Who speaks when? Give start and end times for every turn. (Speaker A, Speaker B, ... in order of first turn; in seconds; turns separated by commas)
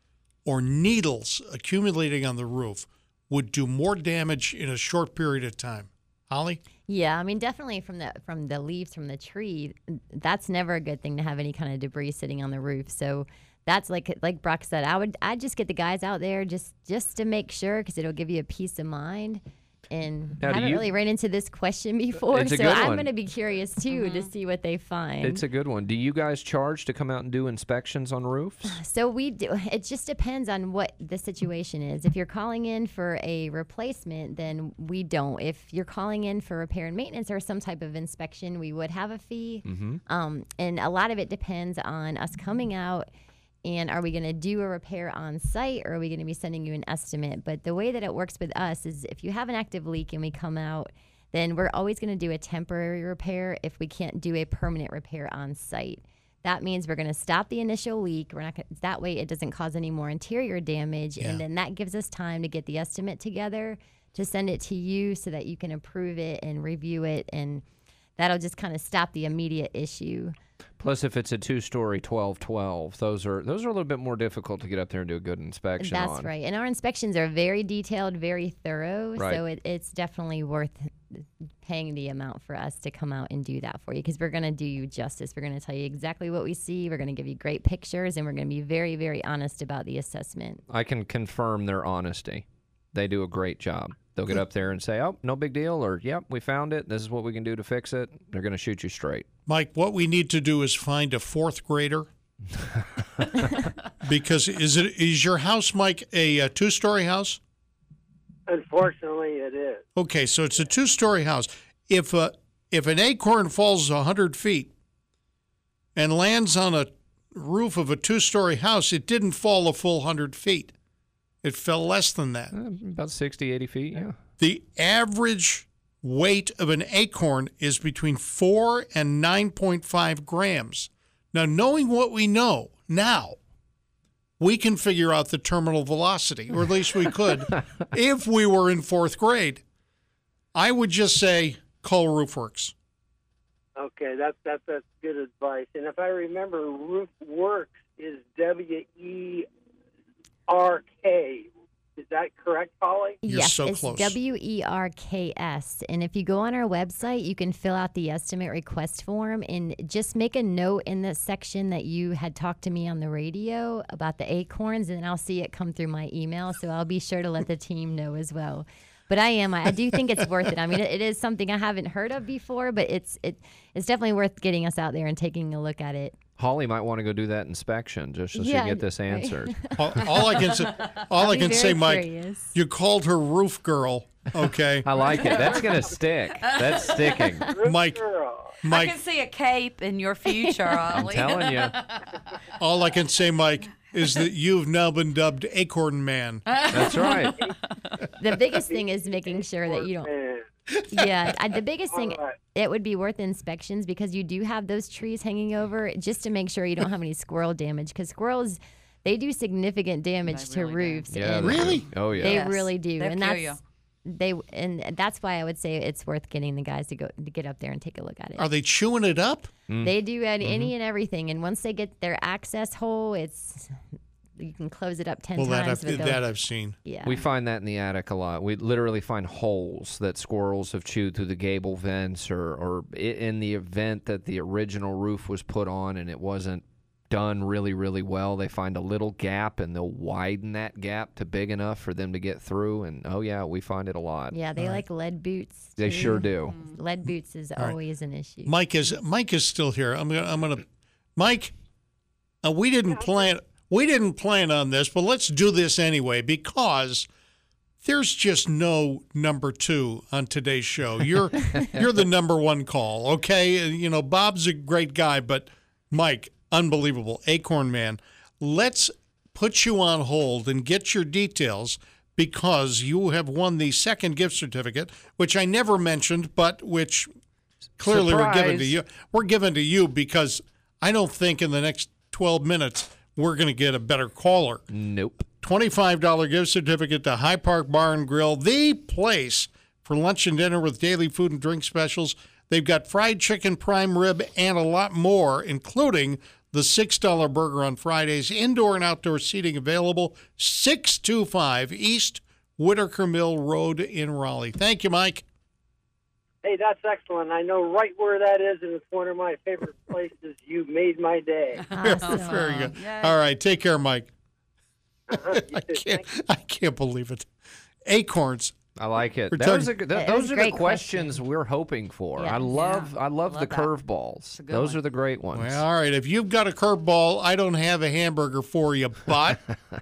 Speaker A: 0.5-6.6, Speaker B: 6.9-25.4, Speaker C: 20.4-20.9, Speaker C: 22.3-23.1, Speaker D: 23.9-24.3, Speaker C: 25.2-28.8, Speaker B: 28.7-43.1, Speaker C: 39.7-40.0, Speaker B: 43.6-67.6, Speaker B: 68.2-70.3, Speaker C: 70.8-76.3, Speaker B: 75.8-90.6, Speaker C: 90.7-99.3, Speaker A: 99.5-102.1, Speaker A: 104.0-107.4, Speaker E: 108.5-109.8, Speaker A: 110.0-114.7, Speaker A: 116.0-120.7, Speaker A: 121.4-122.5, Speaker C: 122.5-124.2, Speaker A: 124.4-133.4, Speaker A: 134.4-139.6, Speaker A: 140.5-142.7, Speaker E: 143.8-149.5, Speaker E: 150.5-153.2, Speaker B: 153.2-176.2, Speaker A: 153.2-154.2, Speaker C: 176.4-179.7, Speaker B: 178.3-179.8, Speaker A: 179.8-184.9, Speaker D: 180.6-181.0, Speaker B: 181.2-182.6, Speaker C: 184.8-187.5, Speaker E: 185.0-186.0, Speaker D: 185.1-185.9, Speaker D: 186.4-187.4, Speaker E: 187.4-188.6, Speaker A: 187.6-188.0, Speaker A: 188.6-189.0, Speaker D: 188.7-192.2, Speaker B: 190.3-190.8, Speaker C: 190.9-191.8, Speaker A: 192.6-196.5, Speaker D: 196.5-197.6, Speaker C: 196.7-197.5, Speaker B: 198.2-200.1, Speaker E: 198.7-200.5, Speaker B: 200.9-218.5, Speaker E: 201.9-202.4, Speaker D: 210.2-211.1, Speaker C: 211.1-212.4, Speaker A: 211.4-211.8, Speaker D: 211.9-213.6, Speaker A: 218.4-219.5, Speaker C: 219.7-220.7, Speaker B: 219.8-223.8, Speaker B: 224.4-226.2, Speaker A: 225.4-226.8, Speaker B: 226.8-227.2, Speaker C: 227.1-244.4, Speaker B: 244.3-248.5, Speaker A: 244.6-244.8, Speaker C: 245.8-246.6, Speaker D: 246.5-246.8, Speaker A: 248.4-250.7, Speaker A: 251.2-251.5, Speaker A: 252.4-257.1, Speaker E: 252.9-253.3, Speaker A: 257.8-277.1, Speaker A: 277.8-284.7, Speaker C: 277.9-278.7, Speaker C: 284.7-285.3, Speaker A: 285.4-305.2, Speaker E: 306.4-311.7, Speaker D: 311.7-313.2, Speaker B: 311.7-312.7, Speaker A: 311.8-314.1, Speaker E: 315.1-316.0, Speaker A: 315.1-317.3, Speaker A: 317.9-318.6, Speaker C: 318.8-325.6, Speaker A: 319.3-319.7, Speaker B: 319.9-321.2, Speaker B: 322.2-322.4, Speaker D: 322.4-323.7, Speaker D: 324.3-324.8, Speaker A: 325.3-329.4